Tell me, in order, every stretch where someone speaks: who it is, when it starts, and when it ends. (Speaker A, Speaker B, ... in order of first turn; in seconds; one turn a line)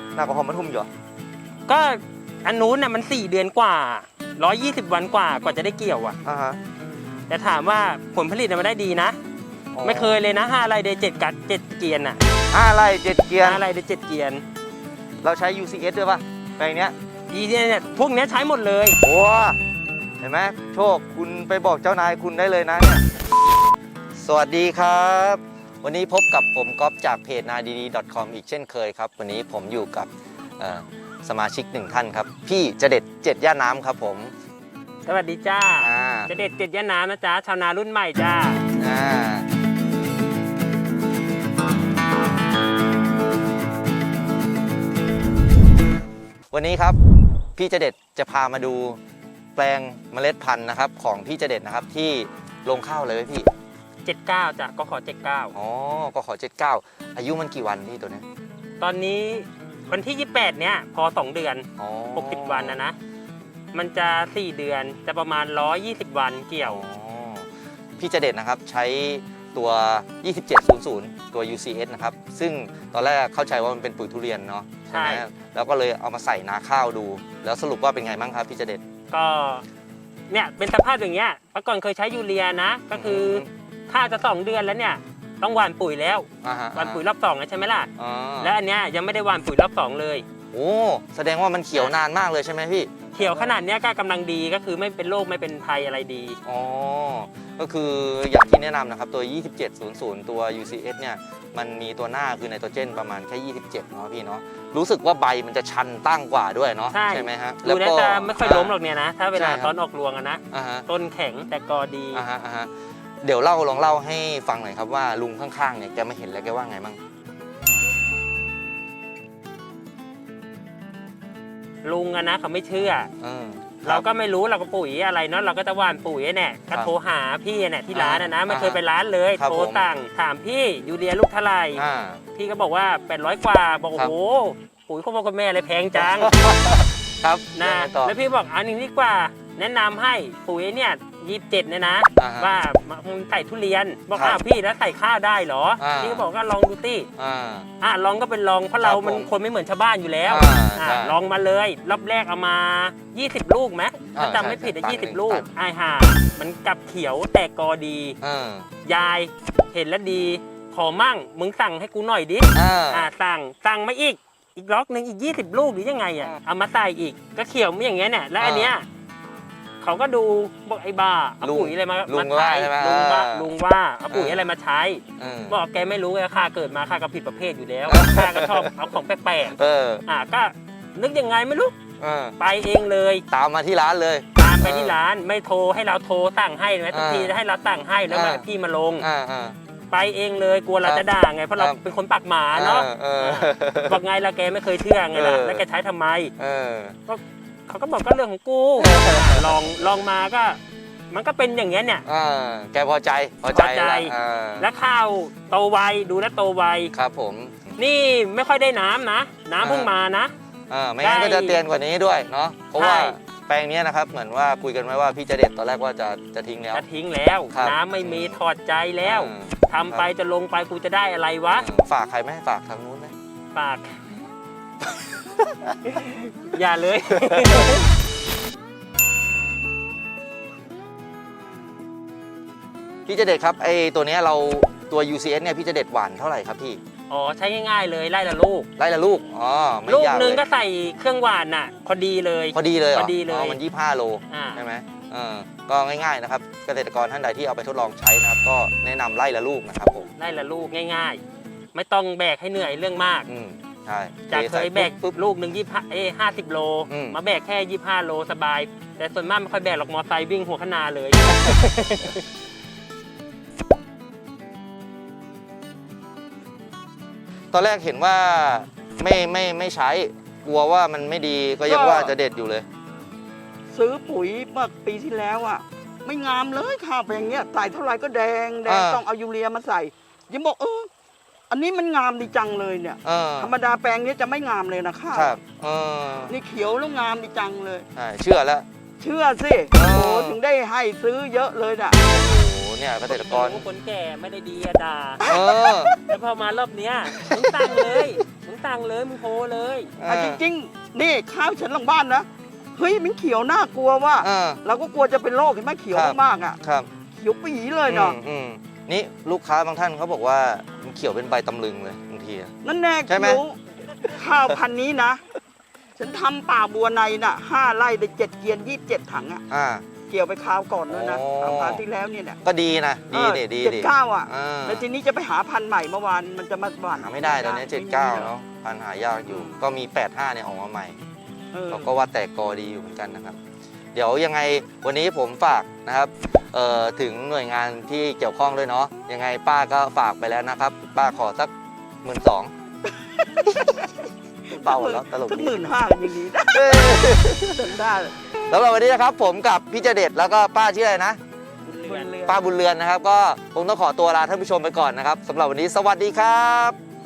Speaker A: 0.1-0.9
Speaker B: 1.7-6.2
Speaker A: 6.2-6.6
Speaker B: 7.3-9.2
Speaker A: 9.7-10.2
Speaker B: 9.8-12.2
Speaker A: 12.5-13.6
Speaker B: 13.4-14.4
Speaker A: 15.2-16.9
Speaker B: 17.3-19.0
Speaker A: 19.0-19.6
Speaker A: 20.2-23.0
Speaker A: 24.2-34.3
Speaker B: 35.0-38.6
Speaker A: 35.8-36.3
Speaker A: 38.8-39.4
Speaker A: 46.5-47.0
Speaker A: 47.5-49.0
Speaker A: 49.5-53.5
Speaker B: 54.0-55.5
Speaker A: 55.5-58.2
Speaker B: 58.8-63.0
Speaker A: 61.8-62.8
Speaker B: 63.7-66.8
Speaker A: 66.6-67.5
Speaker A: 68.0-78.8
Speaker B: 74.9-75.2
Speaker B: 79.1-79.6
Speaker B: 80.3-87.9
Speaker A: 82.9-83.5
Speaker A: 86.4-87.0
Speaker A: 88.0-88.5
Speaker B: 88.4-90.2
Speaker A: 90.5-93.5
Speaker B: 93.1-96.4
Speaker A: 96.4-108.7
Speaker B: 106.9-112.2
Speaker A: 109.3-109.7
Speaker A: 110.5-110.8
Speaker A: 112.1-112.7
Speaker A: 113.2-117.0
Speaker B: 121.8-123.1
Speaker A: 123.2-124.0
Speaker B: 123.8-131.8
Speaker A: 127.9-128.8
Speaker A: 129.4-129.8
Speaker A: 131.7-132.2
Speaker B: 132.3-136.3
Speaker A: 135.9-138.1
Speaker B: 137.5-147.1
Speaker A: 142.2-142.5
Speaker A: 144.1-144.4
Speaker A: 145.8-146.2
Speaker A: 147.2-147.7
Speaker B: 147.8-158.2
Speaker A: 148.8-149.3
Speaker A: 150.3-151.2
Speaker A: 154.1-155.5
Speaker A: 158.2-158.7
Speaker B: 158.8-168.8
Speaker A: 162.5-163.1
Speaker A: 168.4-168.7
Speaker B: 169.8-181.8
Speaker A: 171.4-173.5
Speaker A: 174.1-174.4
Speaker A: 175.2-175.6
Speaker A: 177.9-178.7
Speaker A: 179.5-180.0
Speaker A: 182.0-182.3
Speaker B: 182.4-183.2
Speaker A: 183.3-185.0
Speaker B: 184.4-189.1
Speaker A: 186.9-187.3
Speaker A: 188.1-188.4
Speaker A: 189.0-189.6
Speaker B: 189.9-196.3
Speaker A: 190.8-191.8
Speaker A: 192.5-194.0
Speaker A: 195.1-195.6
Speaker A: 196.4-197.0
Speaker B: 197.1-200.6
Speaker A: 198.8-199.6
Speaker B: 201.1-202.0
Speaker A: 202.1-204.7
Speaker B: 203.5-206.9
Speaker A: 206.9-207.6
Speaker B: 207.8-210.3
Speaker A: 209.6-209.9
Speaker A: 210.7-216.8
Speaker B: 211.0-211.6
Speaker B: 212.8-213.2
Speaker B: 216.7-221.7
Speaker A: 217.5-218.4
Speaker A: 219.0-220.1
Speaker A: 221.6-223.1
Speaker B: 223.5-224.0
Speaker B: 225.8-227.9
Speaker A: 227.3-227.7
Speaker A: 233.1-236.8
Speaker B: 237.1-238.7
Speaker A: 238.8-240.4
Speaker B: 239.9-243.6
Speaker A: 242.5-250.1
Speaker B: 244.3-244.6
Speaker B: 250.2-251.2
Speaker B: 251.7-253.3
Speaker A: 253.3-255.2
Speaker B: 254.3-262.2
Speaker A: 256.9-257.2
Speaker A: 267.5-272.6
Speaker C: 271.6-272.1
Speaker C: 273.7-280.9
Speaker A: 278.6-279.0
Speaker C: 281.5-285.4
Speaker A: 283.0-283.5
Speaker A: 285.1-286.3
Speaker C: 286.3-287.9
Speaker A: 287.9-288.6
Speaker C: 289.0-292.0
Speaker A: 289.7-290.4
Speaker A: 292.0-293.6
Speaker B: 293.1-295.2
Speaker C: 295.2-296.0
Speaker A: 295.2-295.9
Speaker B: 296.1-299.9
Speaker C: 297.3-297.9
Speaker A: 300.0-300.4
Speaker C: 300.0-306.6
Speaker A: 304.2-304.6
Speaker A: 305.9-306.9
Speaker C: 307.1-308.2
Speaker A: 307.9-312.5
Speaker C: 312.6-315.2
Speaker A: 313.1-313.4
Speaker C: 316.0-319.4
Speaker A: 319.5-319.8
Speaker C: 320.1-322.4
Speaker A: 320.9-321.8
Speaker A: 322.4-324.8
Speaker C: 323.1-328.3
Speaker A: 326.9-330.9
Speaker C: 329.3-329.6
Speaker C: 331.5-331.9
Speaker A: 331.7-333.4
Speaker A: 333.9-341.5
Speaker A: 342.0-342.5
Speaker C: 342.9-343.9
Speaker C: 344.5-348.2
Speaker A: 344.5-345.5
Speaker A: 346.4-347.6
Speaker A: 348.4-351.2
Speaker C: 351.7-352.4
Speaker B: 351.7-352.3
Speaker A: 352.2-356.8